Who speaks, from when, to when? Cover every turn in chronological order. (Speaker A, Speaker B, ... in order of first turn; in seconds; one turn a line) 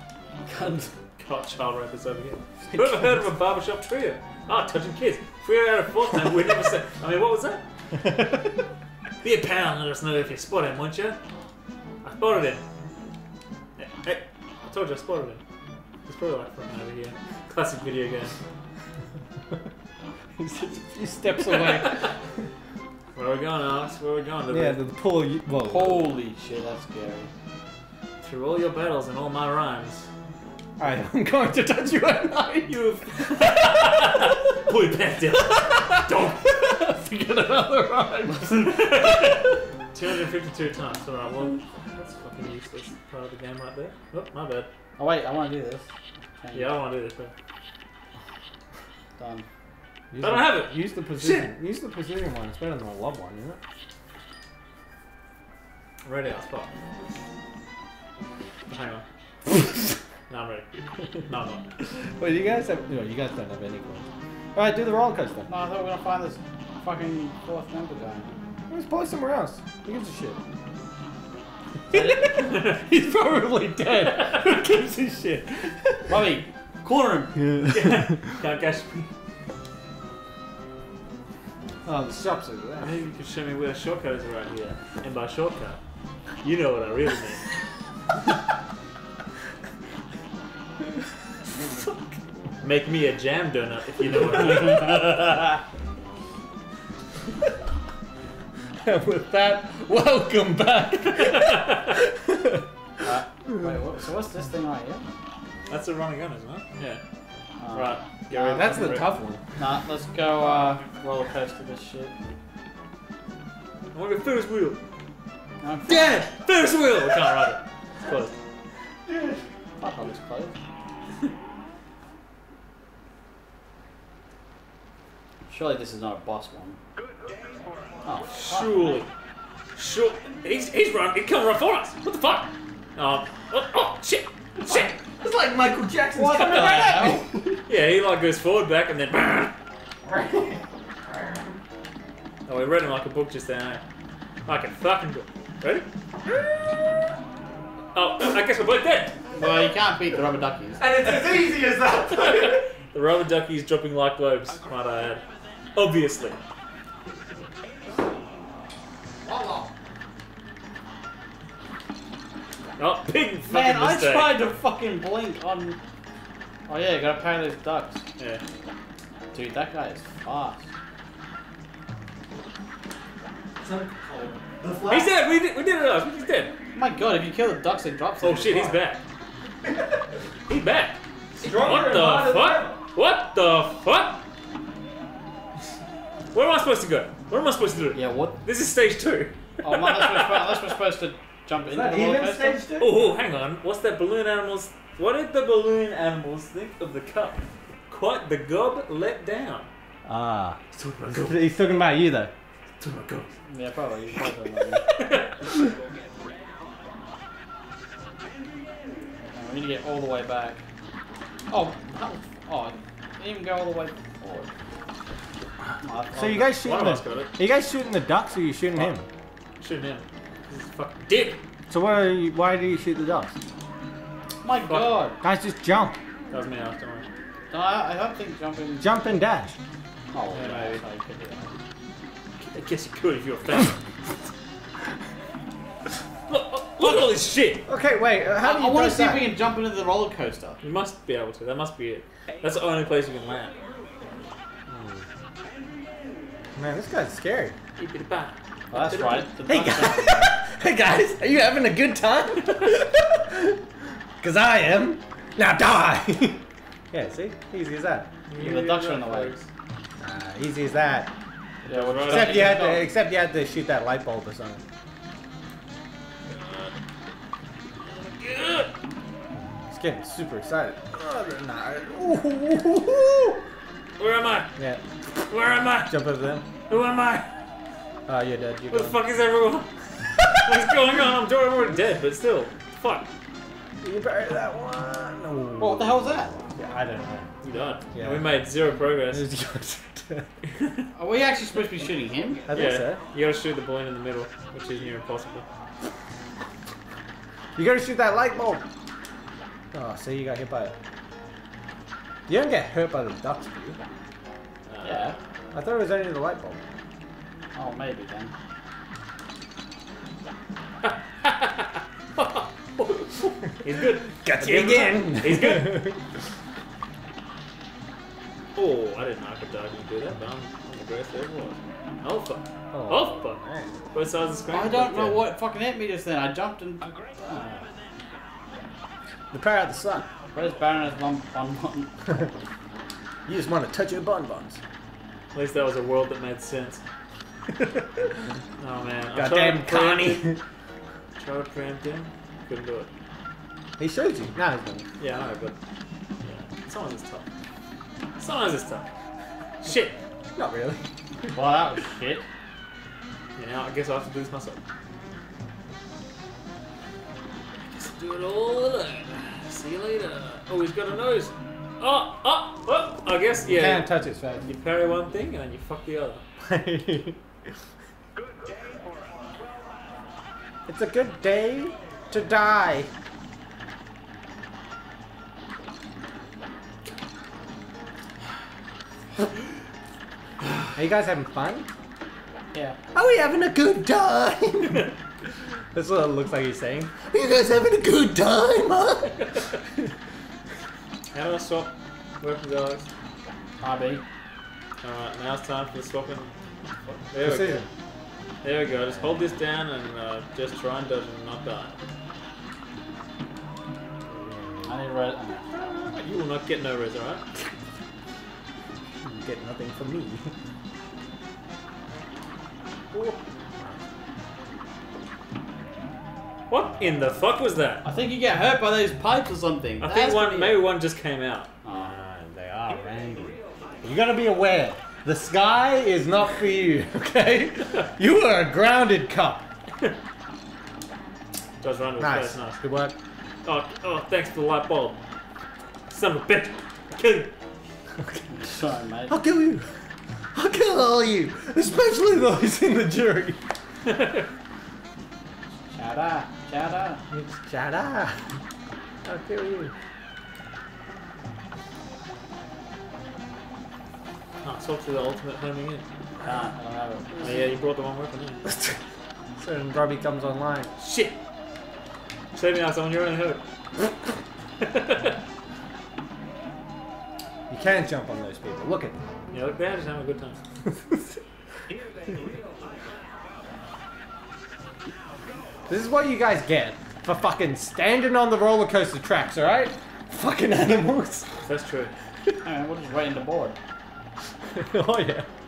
Speaker A: 0.4-0.9
Speaker B: 1.2-7.6
Speaker C: 2.7-3.2
Speaker C: 8.0-8.6
Speaker B: 9.2-11.2
Speaker B: 12.0-12.6
Speaker B: 13.8-15.4
Speaker B: 16.1-18.4
Speaker C: 20.4-22.1
Speaker B: 21.5-22.1
Speaker B: 23.1-24.8
Speaker C: 24.5-26.1
Speaker A: 25.6-27.3
Speaker B: 28.2-30.1
Speaker C: 30.8-34.1
Speaker B: 32.7-36.4
Speaker C: 35.6-39.3
Speaker B: 38.7-44.7
Speaker A: 45.0-45.8
Speaker A: 46.4-46.7
Speaker B: 46.5-47.3
Speaker A: 49.2-49.5
Speaker C: 50.1-53.6
Speaker B: 50.2-51.5
Speaker B: 56.0-56.7
Speaker B: 58.7-59.6
Speaker B: 60.3-61.6
Speaker C: 62.2-65.5
Speaker A: 65.5-68.3
Speaker C: 68.7-70.4
Speaker C: 71.9-76.3
Speaker A: 71.9-72.2
Speaker B: 72.4-72.7
Speaker B: 74.0-74.4
Speaker A: 76.1-77.4
Speaker C: 77.3-78.3
Speaker B: 77.7-79.1
Speaker C: 81.8-82.9
Speaker B: 82.8-85.8
Speaker B: 86.4-87.5
Speaker C: 91.7-92.0
Speaker B: 92.6-95.1
Speaker C: 98.8-102.7
Speaker B: 101.3-101.9
Speaker A: 103.0-105.1
Speaker B: 105.7-107.0
Speaker A: 107.6-112.1
Speaker B: 107.7-108.0
Speaker C: 108.3-109.4
Speaker B: 113.9-114.8
Speaker A: 115.6-116.2
Speaker B: 115.9-118.3
Speaker C: 119.1-119.4
Speaker A: 119.8-120.5
Speaker A: 125.5-126.8
Speaker A: 128.0-129.0
Speaker B: 128.3-129.1
Speaker B: 129.7-134.9
Speaker C: 134.7-137.6
Speaker A: 136.1-137.2
Speaker B: 136.4-136.8
Speaker B: 137.7-139.5
Speaker C: 140.0-141.5
Speaker B: 142.4-143.8
Speaker B: 144.5-145.8
Speaker B: 147.9-149.2
Speaker A: 149.3-150.8
Speaker C: 150.8-152.6
Speaker B: 152.1-155.2
Speaker B: 155.8-156.4
Speaker C: 159.2-159.7
Speaker B: 162.8-164.4
Speaker A: 163.4-165.8
Speaker A: 166.7-168.0
Speaker A: 169.3-170.6
Speaker C: 173.6-175.1
Speaker B: 174.8-176.5
Speaker A: 176.7-178.8
Speaker B: 178.2-179.0
Speaker B: 180.5-184.2
Speaker C: 181.4-182.8
Speaker B: 186.3-190.6
Speaker A: 187.9-188.4
Speaker A: 189.6-192.6
Speaker C: 191.6-193.0
Speaker B: 192.8-199.7
Speaker C: 200.0-200.6
Speaker B: 200.7-201.4
Speaker C: 201.2-202.3
Speaker B: 202.8-203.3
Speaker A: 203.5-204.8
Speaker B: 204.8-205.5
Speaker A: 209.3-210.6
Speaker A: 211.5-214.5
Speaker A: 215.8-216.6
Speaker C: 216.1-219.1
Speaker B: 216.6-217.3
Speaker B: 219.6-221.4
Speaker C: 221.7-223.4
Speaker A: 224.4-225.2
Speaker B: 224.7-225.0
Speaker C: 225.2-225.9
Speaker B: 226.3-227.1
Speaker A: 227.5-229.1
Speaker C: 228.8-229.6
Speaker A: 230.1-231.5
Speaker B: 230.3-230.8
Speaker B: 232.4-234.3
Speaker B: 236.3-237.7
Speaker C: 237.7-239.2
Speaker A: 238.3-240.6
Speaker B: 240.6-243.5
Speaker C: 244.7-245.1
Speaker C: 246.6-247.6
Speaker B: 247.8-249.3
Speaker A: 248.7-250.3
Speaker C: 249.5-253.6
Speaker C: 254.2-258.1
Speaker B: 258.3-259.5
Speaker A: 258.3-259.3
Speaker C: 260.0-261.1
Speaker A: 261.6-262.9
Speaker B: 261.7-262.7
Speaker C: 262.0-264.6
Speaker B: 266.3-266.7
Speaker B: 267.8-268.7
Speaker C: 269.7-273.4
Speaker B: 274.0-274.5
Speaker B: 275.3-275.9
Speaker C: 275.9-276.5
Speaker B: 276.7-277.3
Speaker C: 278.1-279.0
Speaker B: 278.7-283.1
Speaker C: 283.8-287.3
Speaker A: 285.6-286.3
Speaker B: 287.4-289.3
Speaker C: 287.9-288.3
Speaker C: 289.1-290.3
Speaker B: 290.5-290.9
Speaker A: 290.9-292.4
Speaker C: 292.5-293.0
Speaker B: 292.5-295.4
Speaker C: 297.6-298.6
Speaker C: 299.7-300.8
Speaker C: 302.3-303.8
Speaker B: 304.7-305.2
Speaker A: 304.8-305.2
Speaker C: 305.5-306.6
Speaker A: 307.5-308.3
Speaker B: 310.8-315.9
Speaker C: 314.2-316.0
Speaker B: 318.5-323.4
Speaker C: 322.7-323.7
Speaker B: 323.9-325.3
Speaker A: 324.5-327.7
Speaker C: 329.3-330.1
Speaker A: 330.3-332.3
Speaker C: 333.3-334.6
Speaker B: 335.3-336.8
Speaker B: 338.6-340.2
Speaker C: 339.1-340.4
Speaker B: 341.2-342.9
Speaker C: 343.8-344.9
Speaker B: 345.0-345.6
Speaker B: 346.2-347.3
Speaker B: 348.2-348.9
Speaker B: 349.6-349.9
Speaker C: 350.3-351.3
Speaker A: 351.3-352.2
Speaker B: 353.4-354.6
Speaker B: 357.6-363.9
Speaker C: 363.4-364.5
Speaker B: 364.4-366.2
Speaker C: 366.4-367.2
Speaker C: 370.7-372.9
Speaker C: 380.7-381.7
Speaker A: 382.5-382.8
Speaker C: 382.9-384.9
Speaker C: 385.7-389.8
Speaker B: 391.1-392.9
Speaker A: 393.6-394.0
Speaker B: 394.8-396.3
Speaker B: 397.0-397.6
Speaker C: 397.2-397.7
Speaker B: 398.4-401.8
Speaker C: 404.1-404.8
Speaker A: 404.6-405.5
Speaker B: 405.5-407.2
Speaker C: 409.0-410.3
Speaker C: 412.9-413.8
Speaker B: 416.5-417.9
Speaker A: 417.8-420.7
Speaker B: 419.8-421.5
Speaker A: 421.6-421.9
Speaker C: 421.7-429.4
Speaker B: 431.6-432.6
Speaker C: 432.0-432.9
Speaker B: 433.4-435.0
Speaker B: 435.9-437.3
Speaker C: 437.9-438.3
Speaker A: 438.3-439.2
Speaker C: 439.1-439.7
Speaker C: 440.3-443.4
Speaker B: 443.9-444.2
Speaker A: 445.7-447.0
Speaker C: 447.1-448.2
Speaker C: 449.0-449.7
Speaker B: 454.4-455.8
Speaker A: 456.2-457.4
Speaker B: 457.2-458.4
Speaker C: 458.4-458.8
Speaker C: 459.4-460.7
Speaker B: 460.8-461.2
Speaker B: 462.3-463.4
Speaker B: 464.6-465.2
Speaker C: 467.5-469.0
Speaker B: 469.3-470.4
Speaker C: 470.7-471.0
Speaker C: 475.7-481.4
Speaker B: 481.4-481.9
Speaker A: 482.4-483.6
Speaker C: 484.5-485.3